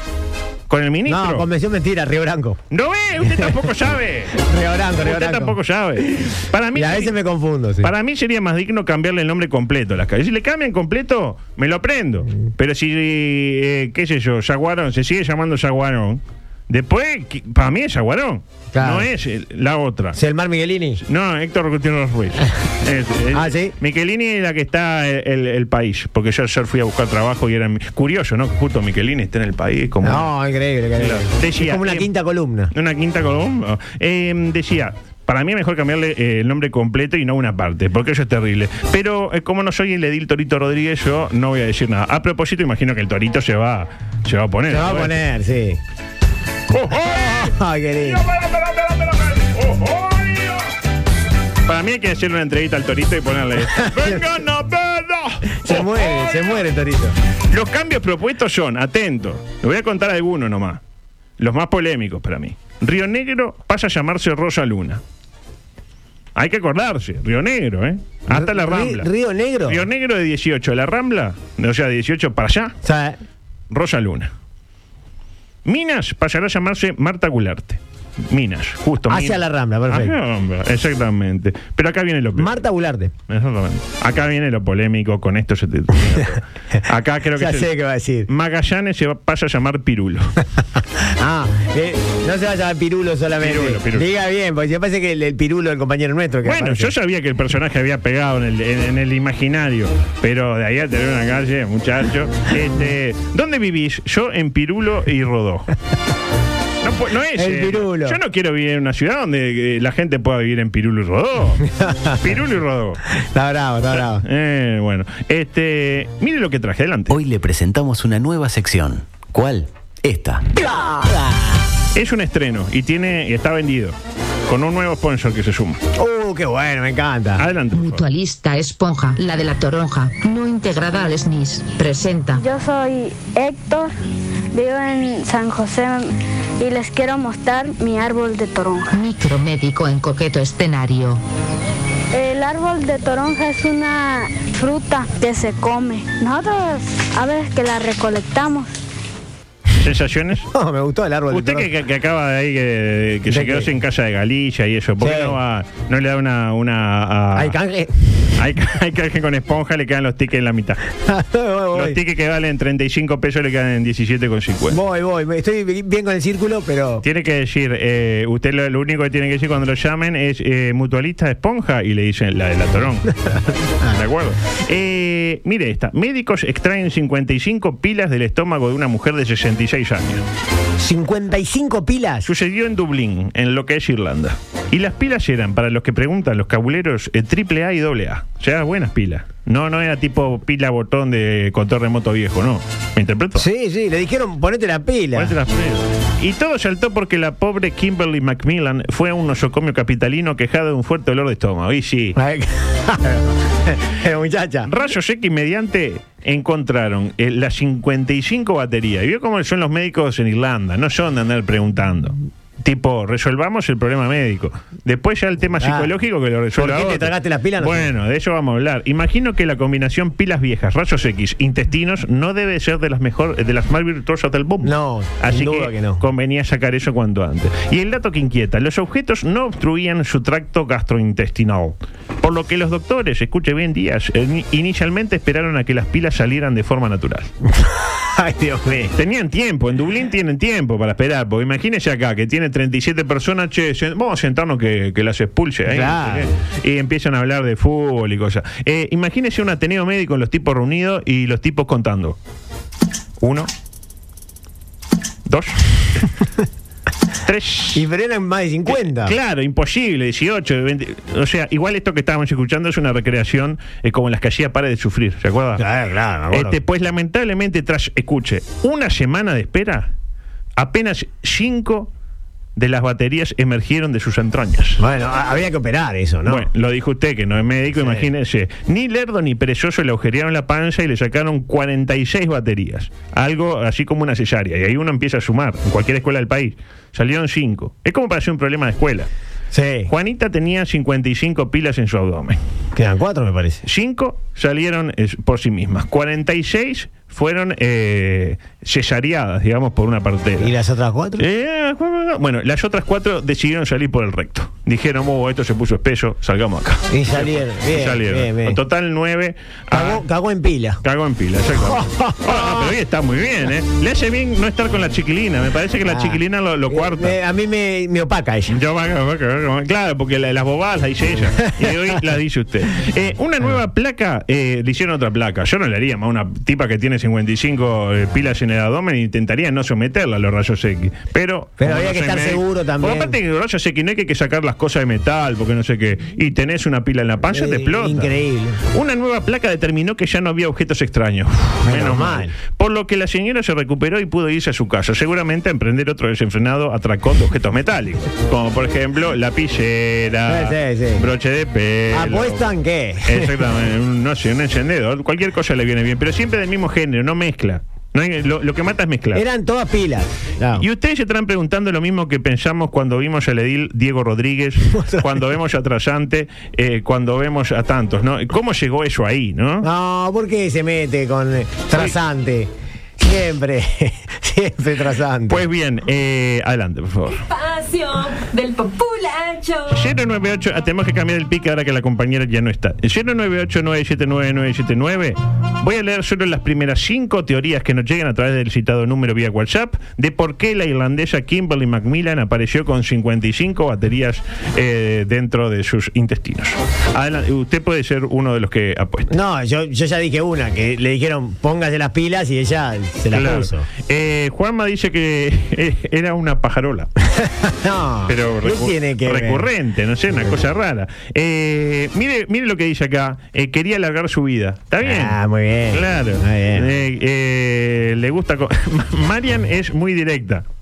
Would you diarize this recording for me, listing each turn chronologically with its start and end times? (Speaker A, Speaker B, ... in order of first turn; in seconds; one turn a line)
Speaker A: 0.7-1.5
Speaker B: 1.1-2.6
Speaker A: 2.7-4.4
Speaker B: 3.3-3.5
Speaker B: 4.3-5.6
Speaker A: 5.0-7.2
Speaker B: 6.7-7.9
Speaker A: 7.8-20.2
Speaker B: 18.7-19.1
Speaker B: 20.1-21.0
Speaker A: 21.0-30.3
Speaker B: 23.3-23.8
Speaker B: 30.0-32.7
Speaker A: 31.0-32.1
Speaker A: 32.7-45.2
Speaker B: 44.7-45.8
Speaker A: 46.7-50.6
Speaker B: 47.0-48.2
Speaker A: 51.6-56.6
Speaker B: 53.6-54.2
Speaker B: 55.6-57.1
Speaker A: 57.5-60.8
Speaker A: 61.4-65.0
Speaker A: 66.4-69.1
Speaker B: 68.3-69.8
Speaker A: 69.7-72.8
Speaker B: 72.8-73.2
Speaker A: 73.7-74.3
Speaker A: 75.7-82.6
Speaker B: 79.1-80.2
Speaker B: 82.4-83.1
Speaker A: 83.3-87.7
Speaker B: 87.3-88.3
Speaker A: 88.3-90.3
Speaker B: 91.0-96.9
Speaker A: 93.4-94.1
Speaker A: 96.4-105.7
Speaker A: 106.8-113.0
Speaker B: 107.3-108.2
Speaker B: 111.7-112.2
Speaker B: 113.1-114.2
Speaker A: 113.9-117.2
Speaker C: 117.1-120.5
Speaker B: 120.6-121.7
Speaker A: 121.9-124.0
Speaker A: 124.5-125.8
Speaker B: 126.0-127.5
Speaker A: 127.4-128.0
Speaker D: 127.7-132.4
Speaker E: 132.4-133.9
Speaker E: 134.5-138.9
Speaker D: 138.9-141.2
Speaker E: 142.1-148.8
Speaker A: 149.8-150.5
Speaker B: 150.5-151.7
Speaker A: 151.3-157.6
Speaker B: 153.3-153.7
Speaker B: 155.0-155.4
Speaker B: 157.3-158.0
Speaker A: 158.4-160.9
Speaker B: 161.0-162.0
Speaker A: 161.7-164.8
Speaker B: 164.7-167.1
Speaker A: 167.0-180.2
Speaker B: 180.8-182.3
Speaker A: 182.2-193.5
Speaker B: 193.4-195.3
Speaker A: 195.2-202.2
Speaker B: 202.2-204.7
Speaker A: 204.7-237.3
Speaker B: 215.6-215.9
Speaker B: 216.6-217.9
Speaker B: 224.6-226.0
Speaker B: 237.5-238.9
Speaker A: 238.9-252.2
Speaker B: 245.7-246.3
Speaker A: 253.2-253.5
Speaker A: 255.3-256.1
Speaker A: 257.2-257.9
Speaker B: 257.7-259.1
Speaker A: 258.7-265.6
Speaker B: 265.6-266.6
Speaker A: 266.3-269.9
Speaker A: 270.6-271.9
Speaker A: 272.6-274.8
Speaker B: 274.8-276.5
Speaker A: 276.3-289.1
Speaker B: 277.8-278.1
Speaker B: 289.5-289.9
Speaker A: 289.9-292.4
Speaker B: 292.8-293.6
Speaker A: 293.6-300.5
Speaker B: 300.4-301.2
Speaker A: 301.2-310.0
Speaker B: 306.9-308.6
Speaker B: 309.7-310.8
Speaker A: 310.8-317.2
Speaker B: 311.5-312.8
Speaker B: 315.9-318.6
Speaker A: 318.5-338.1
Speaker B: 321.4-322.0
Speaker B: 331.6-333.2
Speaker B: 337.3-338.6
Speaker A: 338.7-352.5
Speaker B: 341.6-342.3
Speaker B: 350.3-351.1
Speaker B: 351.9-353.4
Speaker A: 353.0-359.2
Speaker B: 359.1-360.6
Speaker A: 360.5-369.7
Speaker B: 364.7-365.2
Speaker B: 369.6-375.4
Speaker A: 375.3-377.3
Speaker F: 377.4-379.6
Speaker A: 379.7-399.1
Speaker B: 399.1-403.7
Speaker A: 403.1-406.9
Speaker B: 407.1-409.5
Speaker A: 408.1-415.2
Speaker B: 414.8-416.8
Speaker A: 415.7-420.4